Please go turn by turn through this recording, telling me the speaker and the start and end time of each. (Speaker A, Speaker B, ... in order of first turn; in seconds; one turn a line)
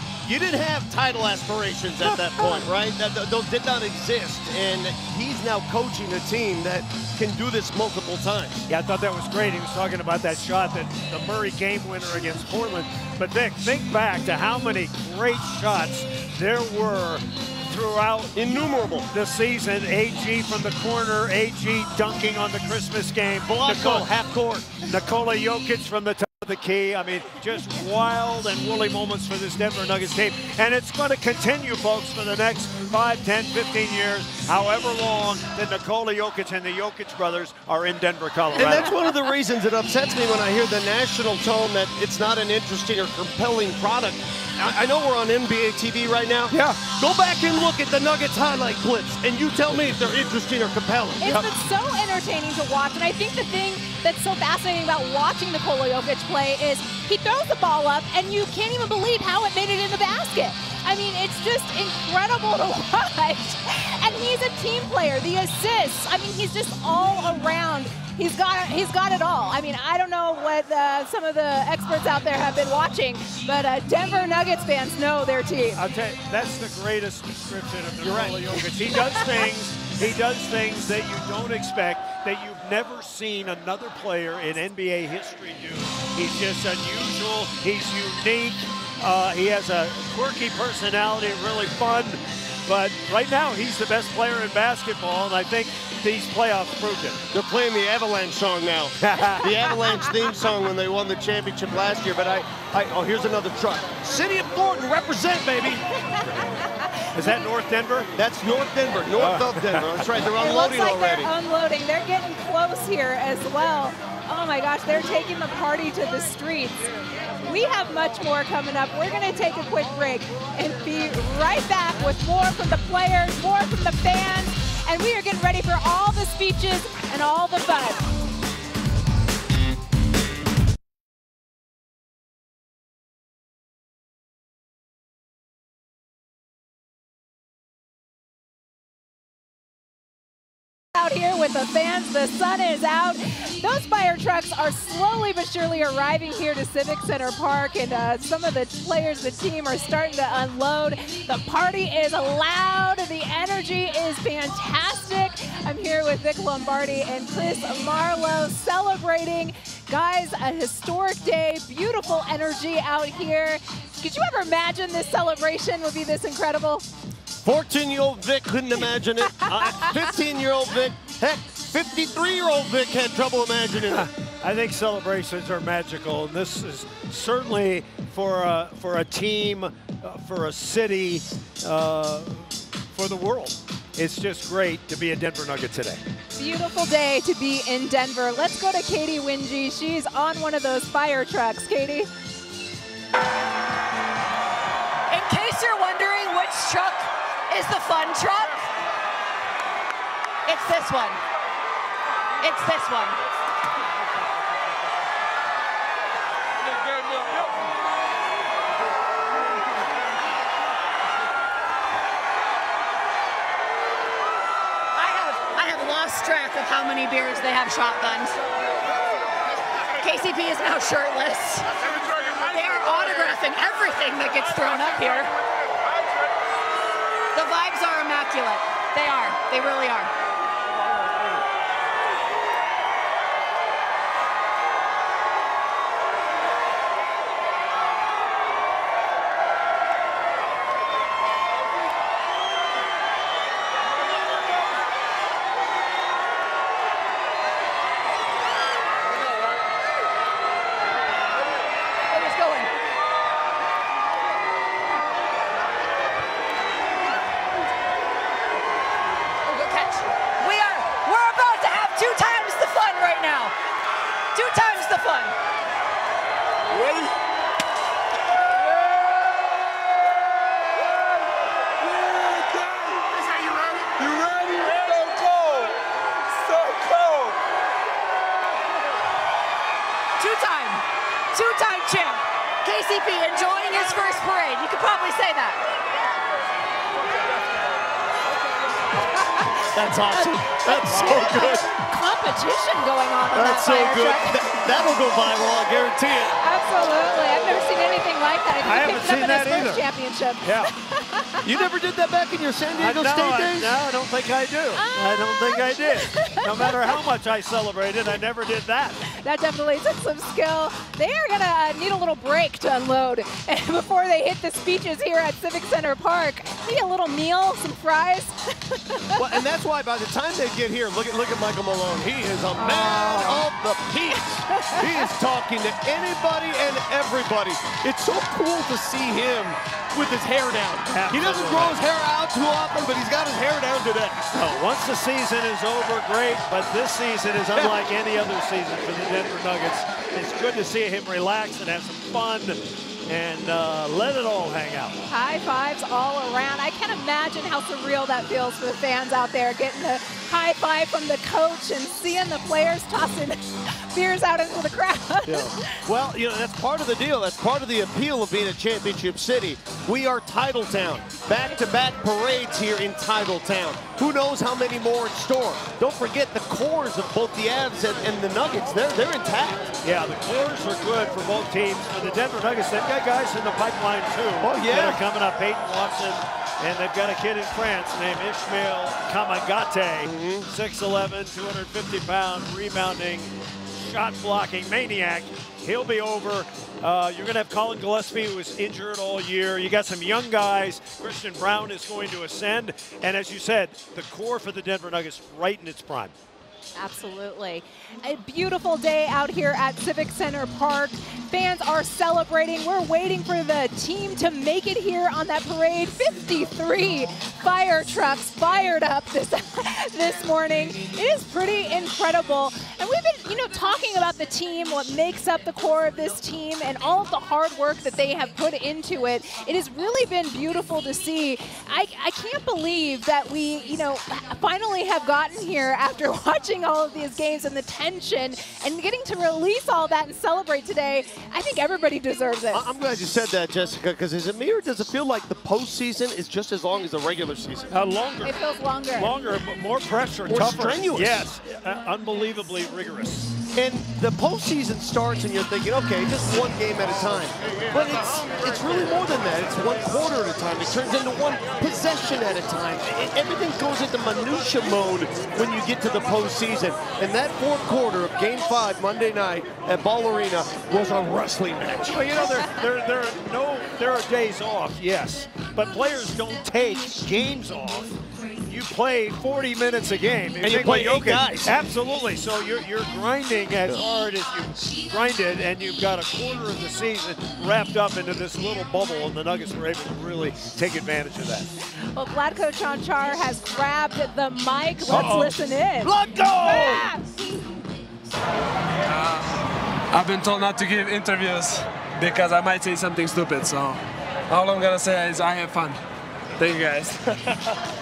Speaker A: 0.2-8.6
Speaker B: 2.4-2.6
Speaker C: 8.7-18.3
Speaker A: 18.4-19.1
Speaker C: 19.1-24.1
Speaker A: 23.5-24.8
Speaker C: 24.8-38.9
Speaker A: 38.5-51.5
Speaker C: 46.5-46.8
Speaker B: 51.2-75.8
Speaker C: 75.7-97.2
Speaker A: 78.0-78.7
Speaker B: 78.9-79.2
Speaker A: 97.3-105.8
Speaker C: 99.0-99.5
Speaker C: 106.2-106.5
Speaker C: 107.1-108.1
Speaker A: 108.2-111.3
Speaker C: 109.1-110.1
Speaker B: 110.4-116.9
Speaker B: 117.4-128.0
Speaker B: 140.9-166.8
Speaker A: 167.4-174.1
Speaker C: 173.9-186.0
Speaker B: 186.4-192.1
Speaker D: 195.1-198.7
Speaker D: 200.5-201.2
Speaker D: 202.4-203.2
Speaker D: 215.0-218.3
Speaker D: 220.0-221.7
Speaker D: 222.3-225.3
Speaker D: 227.3-230.1
Speaker D: 252.1-252.7
Speaker D: 259.4-263.5
Speaker D: 264.3-265.3
Speaker E: 274.5-275.6
Speaker E: 276.5-277.3
Speaker D: 280.2-285.6
Speaker A: 289.7-291.6
Speaker B: 290.1-294.4
Speaker A: 293.3-296.4
Speaker B: 296.4-301.4
Speaker C: 298.6-299.9
Speaker C: 300.4-300.7
Speaker A: 301.4-303.8
Speaker C: 302.8-309.0
Speaker B: 304.8-306.8
Speaker B: 309.1-319.2
Speaker A: 319.2-334.3
Speaker B: 322.6-323.4
Speaker B: 324.5-324.8
Speaker C: 330.9-331.8
Speaker C: 334.3-345.0
Speaker B: 345.1-355.7
Speaker A: 355.3-369.7
Speaker C: 369.8-383.3
Speaker A: 374.4-375.0
Speaker A: 380.0-380.5
Speaker C: 383.8-396.1
Speaker B: 396.8-432.6
Speaker A: 432.5-437.7
Speaker C: 437.7-438.4
Speaker B: 438.2-439.1
Speaker C: 439.0-443.3
Speaker A: 440.3-441.2
Speaker A: 443.5-462.3
Speaker C: 461.9-481.5
Speaker A: 470.4-471.6
Speaker B: 481.9-487.2
Speaker C: 484.9-486.9
Speaker E: 490.0-491.5
Speaker E: 492.0-493.7
Speaker E: 494.4-495.7
Speaker E: 496.4-496.9